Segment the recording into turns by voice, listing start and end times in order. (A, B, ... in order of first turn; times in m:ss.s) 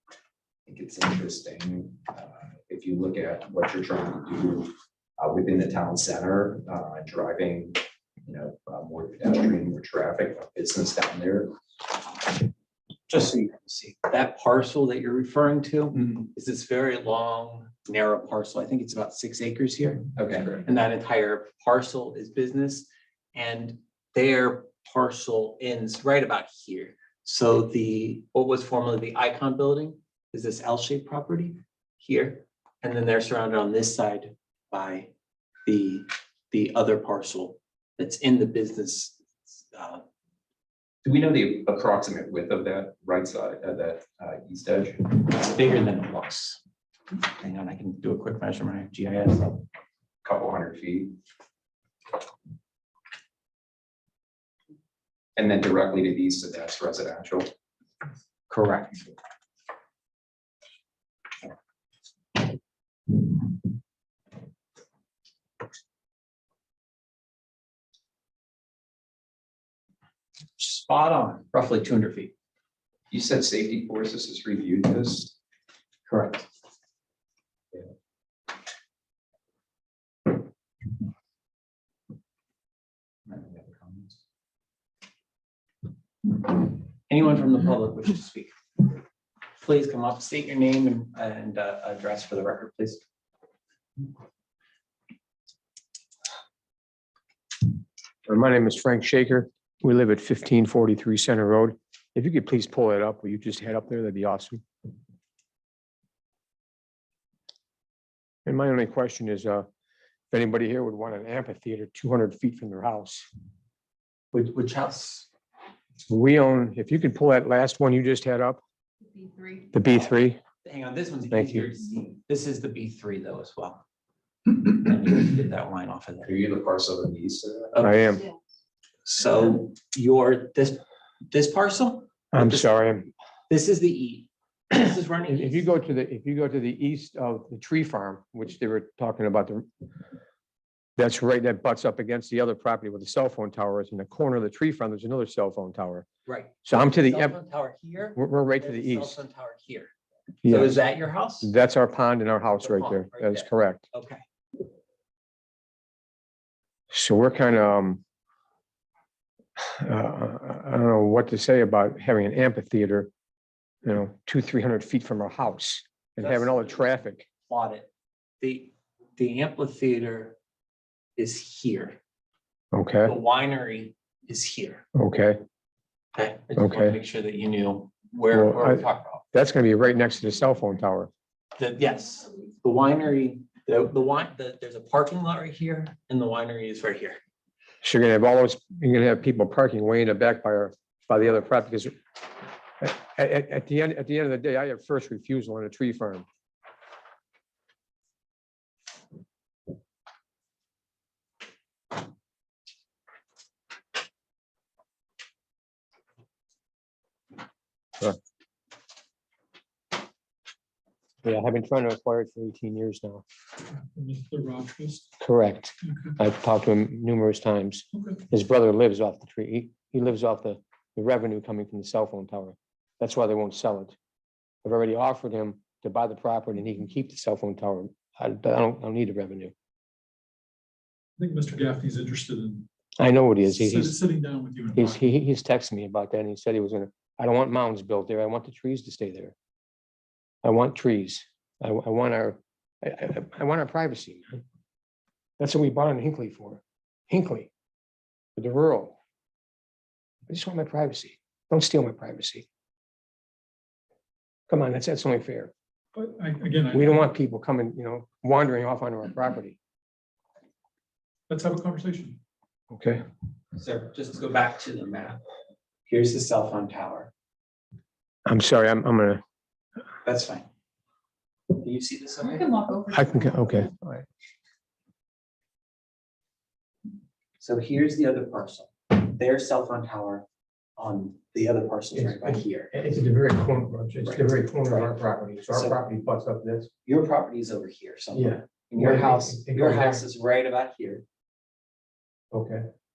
0:00.7-0:11.6 A
0:13.1-0:35.1 B
0:20.2-0:20.6 A
0:35.7-0:40.0 B
0:41.0-0:45.2 A
0:45.2-0:46.6 B
0:47.2-0:49.7 B
0:50.2-0:51.2 A
0:55.4-0:57.5 A
0:58.5-0:59.1 B
1:10.6-1:12.3 B
1:13.1-1:15.4 A
1:16.1-1:16.5 B
1:23.3-1:23.6 A
1:26.4-1:28.5 B
1:29.6-1:33.0 B
1:38.3-1:44.6 C
1:48.5-1:49.7 C
1:50.3-1:53.3 C
1:54.3-1:55.3 B
1:56.1-1:58.6 C
1:59.1-1:59.7 D
1:59.7-2:00.4 C
2:00.6-2:03.8 B
2:01.3-2:01.7 C
2:04.5-2:06.3 B
2:06.2-2:07.9 A
2:07.7-2:08.0 B
2:07.8-2:08.3 C
2:09.1-2:12.7 B
2:12.3-2:13.1 C
2:13.5-2:15.7 B
2:15.3-2:19.7 C
2:21.0-2:26.1 C
2:26.3-2:29.9 B
2:26.6-2:27.4 C
2:28.2-2:29.2 C
2:30.4-2:31.5 B
2:30.4-2:30.8 C
2:31.4-2:33.8 C
2:32.6-2:34.2 B
2:36.9-2:38.0 C
2:39.6-2:43.1 C
2:43.8-2:47.3 C
2:46.2-2:46.9 B
2:47.5-2:47.9 B
2:48.4-2:50.4 B
2:51.2-2:52.0 B
2:52.7-2:53.1 C
2:53.0-2:54.8 B
2:55.0-2:55.4 C
2:56.2-2:59.2 B
2:56.6-2:57.0 C
2:58.3-3:01.1 C
3:01.6-3:07.2 B
3:07.8-3:12.0 C
3:12.8-3:16.2 C
3:31.2-3:33.2 C
3:33.7-3:35.1 E
3:35.2-3:44.0 C
3:35.8-3:36.2 E
3:37.9-3:38.2 E
3:44.6-3:49.5 C
3:51.2-3:52.7 E
3:53.0-3:54.0 C
3:53.4-3:55.0 E
3:54.8-3:59.4 C
4:00.4-4:04.4 C
4:05.4-4:07.5 C
4:08.4-4:09.0 C
4:10.3-4:12.5 C
4:14.5-4:15.5 C
4:16.0-4:17.1 E
4:16.7-4:19.6 C
4:21.3-4:22.2 E
4:22.7-4:23.0 C
4:23.6-4:25.2 B
4:25.9-4:27.1 B
4:28.3-4:29.2 C
4:30.0-4:30.5 B
4:31.5-4:32.7 B
4:32.4-4:33.6 D
4:32.9-4:34.0 C
4:37.4-4:40.2 B
4:40.8-4:42.7 B
4:41.9-4:46.7 C
4:44.0-4:45.0 B
4:45.5-4:45.8 B
4:46.8-4:51.0 B
4:48.1-4:50.0 C
4:52.3-4:52.7 C